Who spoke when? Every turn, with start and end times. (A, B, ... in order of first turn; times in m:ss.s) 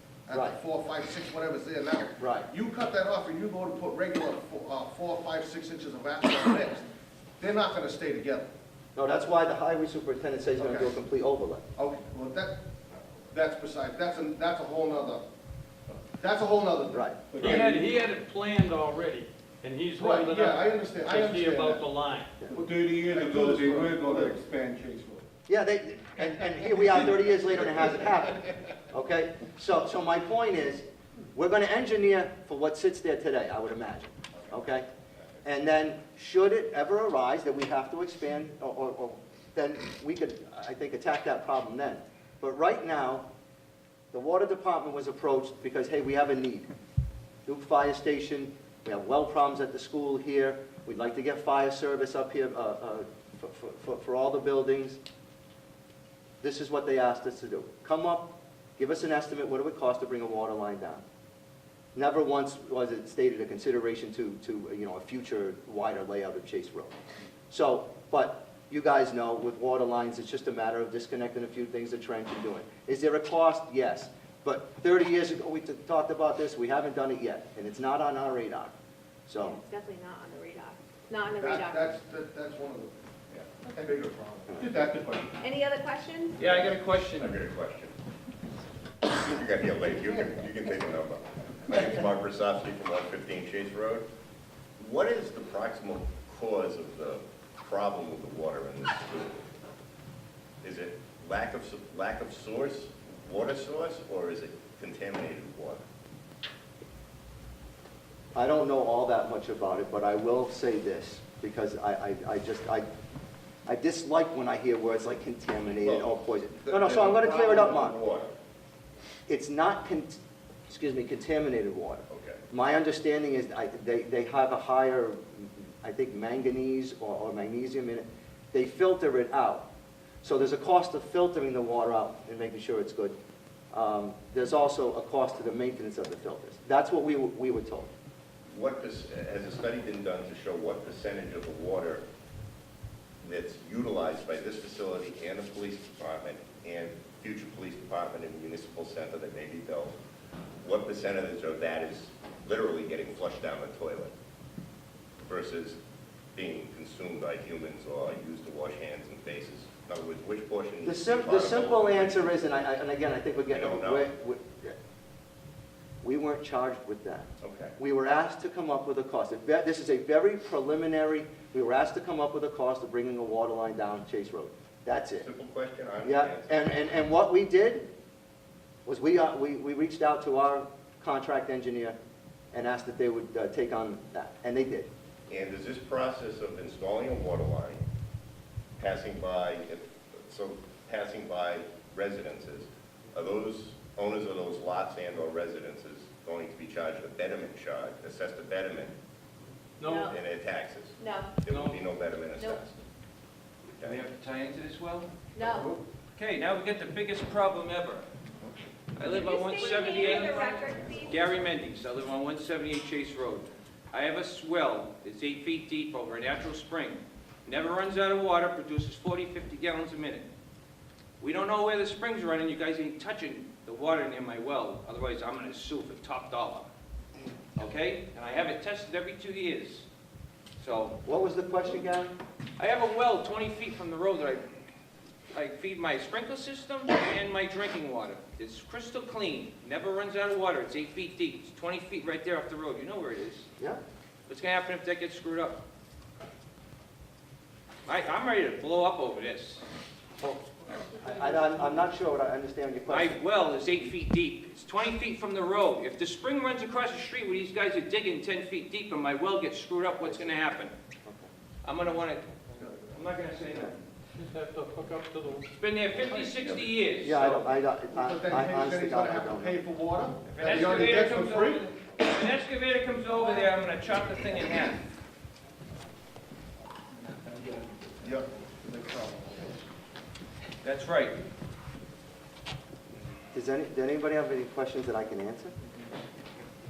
0:00.3-0:06.9 A
0:02.2-0:02.5 B
0:07.4-0:08.5 A
0:09.0-0:11.6 B
0:10.6-0:10.9 A
0:11.8-0:12.6 A
0:13.3-0:15.2 A
0:16.2-0:17.8 A
0:16.9-0:17.2 B
0:17.4-0:22.5 C
0:20.0-0:21.9 A
0:22.5-0:24.5 A
0:22.5-0:25.0 D
0:25.5-0:34.9 B
0:35.4-0:43.2 B
0:44.1-0:46.7 B
0:47.4-0:55.0 B
0:56.4-1:01.0 B
1:01.9-1:06.9 B
1:07.5-1:18.7 B
1:19.3-1:19.6 B
1:19.4-1:21.9 E
1:21.4-1:25.0 A
1:24.7-1:25.2 D
1:25.4-1:26.4 E
1:26.4-1:27.4 F
1:26.4-1:27.9 G
1:29.1-1:34.0 G
1:34.8-1:39.4 G
1:40.6-1:45.8 G
1:48.3-1:52.8 B
1:53.6-1:58.0 B
1:55.8-1:58.3 G
1:59.3-2:00.2 B
2:00.7-2:09.6 B
2:02.1-2:02.4 G
2:10.2-2:13.1 B
2:13.7-2:17.9 B
2:18.5-2:22.0 G
2:23.2-2:30.0 G
2:30.6-2:34.1 G
2:35.2-2:35.8 G
2:36.3-2:42.4 G
2:40.8-2:44.7 B
2:43.5-2:44.1 G
2:46.0-2:55.3 B
2:47.4-2:47.7 G
2:55.2-2:56.5 G
2:56.0-2:57.9 B
2:58.8-3:02.0 B
3:02.5-3:04.9 B
3:05.3-3:07.8 G
3:08.8-3:18.9 G
3:19.8-3:20.2 E
3:19.8-3:20.1 F
3:20.1-3:22.8 G
3:21.0-3:21.3 E
3:21.5-3:21.8 F
3:22.4-3:22.6 E
3:23.6-3:24.0 G
3:23.8-3:25.2 F
3:25.3-3:25.8 E
3:26.2-3:28.1 F
3:29.0-3:40.3 F
3:29.0-3:31.2 E
3:41.2-3:46.7 F
3:47.6-3:49.8 F
3:50.6-3:51.0 F
3:51.0-3:52.1 B
3:52.6-3:54.4 F
3:55.3-4:03.5 F
4:04.3-4:05.6 F
4:07.8-4:09.6 F
4:10.2-4:13.2 B
4:12.9-4:20.7 F
4:20.0-4:20.4 B
4:21.0-4:21.3 B
4:21.6-4:23.8 F
4:24.2-4:25.5 C
4:25.5-4:27.5 F
4:27.0-4:29.6 B
4:27.9-4:31.7 A
4:30.3-4:34.9 F
4:38.0-4:39.6 A
4:40.6-4:41.2 F
4:43.3-4:45.5 B